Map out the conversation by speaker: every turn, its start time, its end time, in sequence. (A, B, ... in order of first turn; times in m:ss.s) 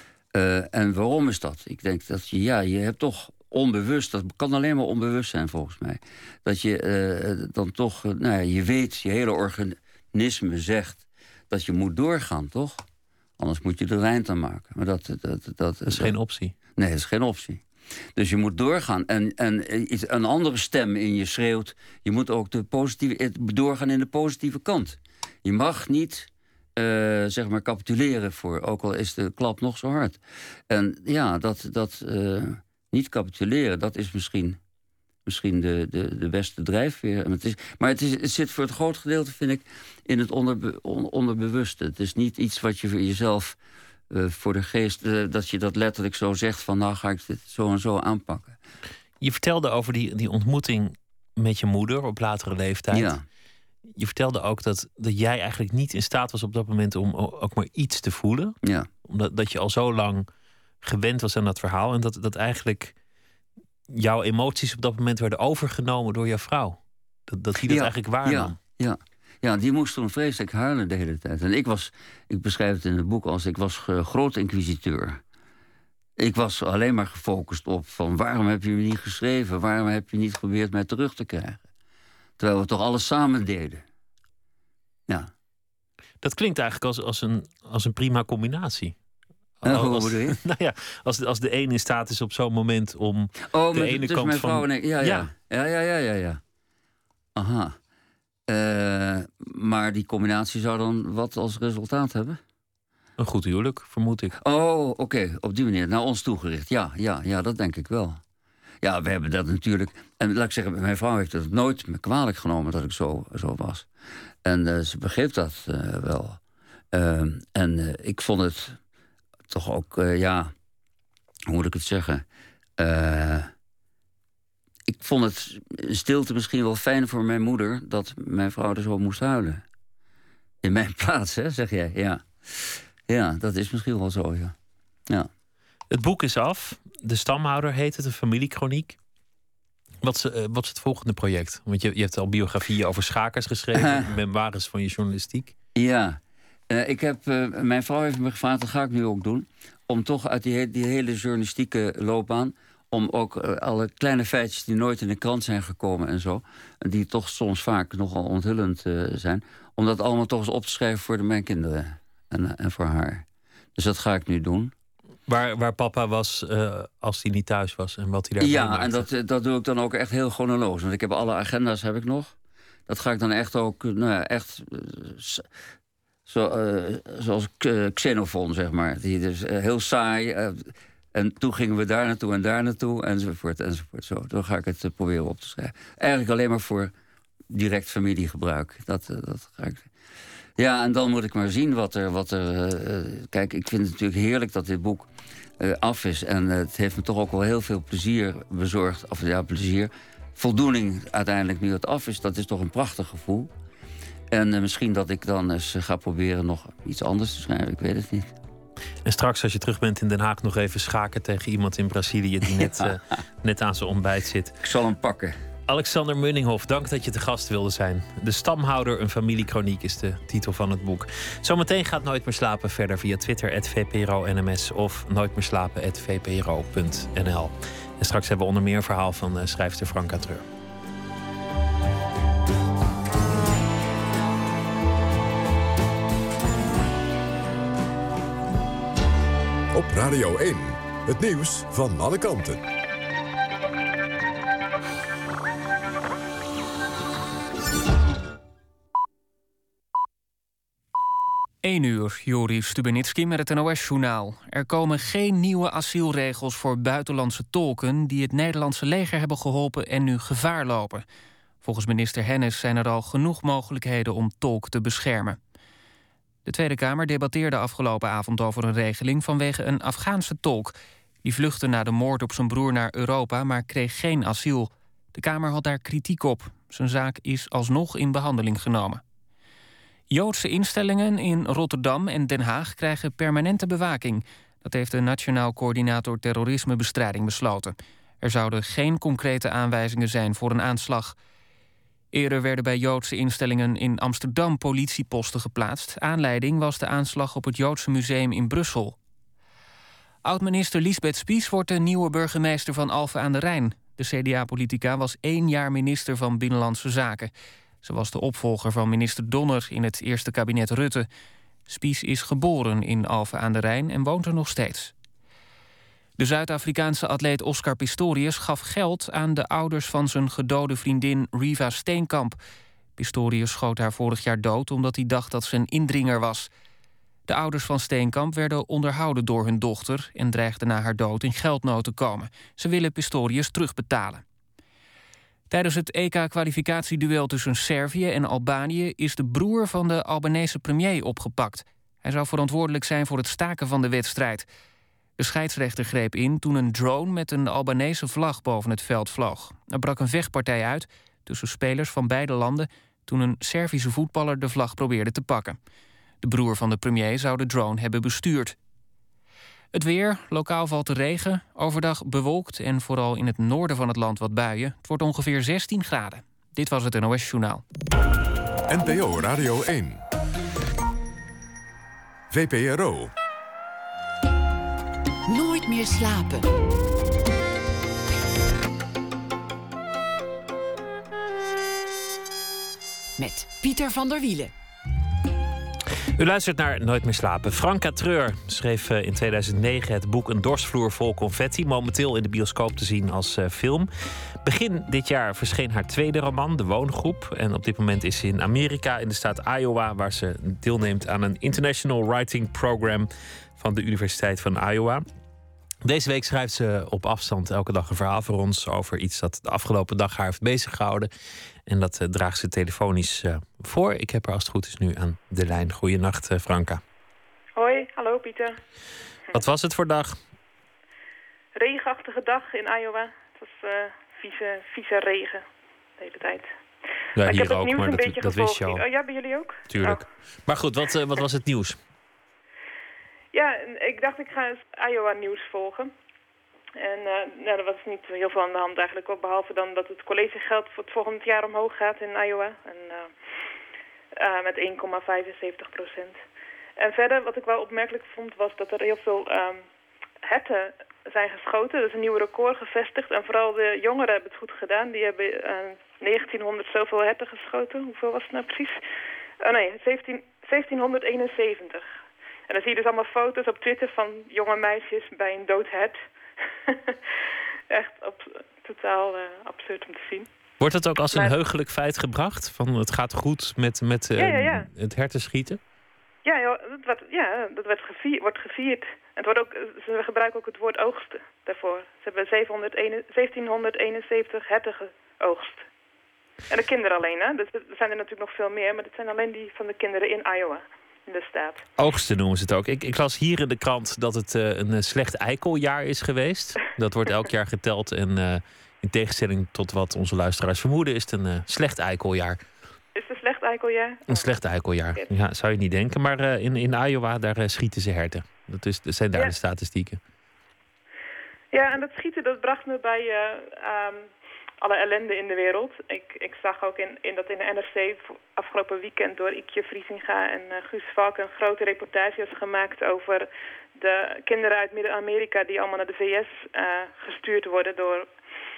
0:00.3-0:12.8 A
0:13.4-0:16.1 A
0:15.9-0:16.5 B
0:16.8-0:17.6 A
0:18.2-0:30.2 A
0:30.7-0:34.6 A
0:35.2-0:43.6 A
0:44.1-0:48.6 A
0:49.2-0:53.2 B
0:52.9-0:53.2 A
0:53.9-1:00.3 B
0:58.6-0:58.9 A
1:00.8-1:02.9 B
1:03.9-1:08.6 B
1:07.6-1:15.2 A
1:16.2-1:21.6 A
1:22.4-1:23.8 A
1:26.2-1:29.0 B
1:29.6-1:35.3 B
1:29.6-1:30.4 A
1:33.5-1:36.4 A
1:37.4-1:37.7 A
1:38.5-1:42.4 A
1:43.2-1:44.4 B
1:44.4-1:48.2 A
1:48.8-1:53.9 A
1:54.4-1:56.4 A
1:56.9-1:58.8 A
1:59.5-2:00.5 A
2:01.5-2:02.2 A
2:02.8-2:03.5 A
2:04.9-2:09.6 A
2:10.6-2:14.5 A
2:15.9-2:19.0 B
2:20.0-2:25.5 B
2:23.8-2:24.1 A
2:25.7-2:26.2 A
2:26.7-2:43.2 A
2:43.8-2:44.7 A
2:45.3-2:49.0 B
2:48.4-2:52.3 A
2:52.9-2:55.4 A
2:56.3-3:06.9 A
3:07.5-3:09.9 A
3:10.6-3:23.5 A
3:24.3-3:28.3 A
3:29.0-3:34.5 B
3:32.5-3:32.9 A
3:34.6-3:35.3 A
3:35.7-3:50.4 B
3:59.7-4:02.6 C
4:11.6-4:21.0 D
4:21.6-4:25.4 D
4:26.4-4:39.0 D
4:40.1-4:51.2 D
4:52.1-4:59.0 D
5:00.2-5:07.3 D
5:07.8-5:11.1 D
5:11.7-5:14.9 D
5:16.2-5:22.4 D
5:23.0-5:26.5 D
5:27.3-5:34.2 D
5:35.5-5:44.5 D
5:45.2-5:55.6 D
5:56.2-5:58.6 D
5:59.7-6:07.6 D
6:08.7-6:10.0 C
6:12.3-6:13.1 C
6:15.3-6:16.5 E
6:23.2-6:24.5 E
6:26.2-6:33.9 B
6:34.4-6:45.0 B
6:45.8-6:51.1 B
6:51.7-6:56.8 B
6:57.6-6:58.6 F
6:59.3-7:00.2 B
7:01.6-7:05.4 F
7:06.0-7:06.5 F
7:07.2-7:08.8 B
7:07.2-7:10.0 F
7:09.7-7:11.8 B
7:13.3-7:15.9 F
7:16.8-7:23.1 F
7:24.2-7:26.2 F
7:26.8-7:29.6 F
7:30.2-7:38.8 F
7:39.4-7:41.9 F
7:42.5-7:46.0 F
7:46.7-7:47.0 F
7:47.7-7:50.3 F
7:50.6-7:55.6 B
7:54.2-7:54.7 F
7:56.2-8:05.6 F
8:06.5-8:11.6 F
8:11.8-8:22.4 B
8:23.0-8:24.3 F
8:24.1-8:30.0 B
8:31.5-8:48.1 F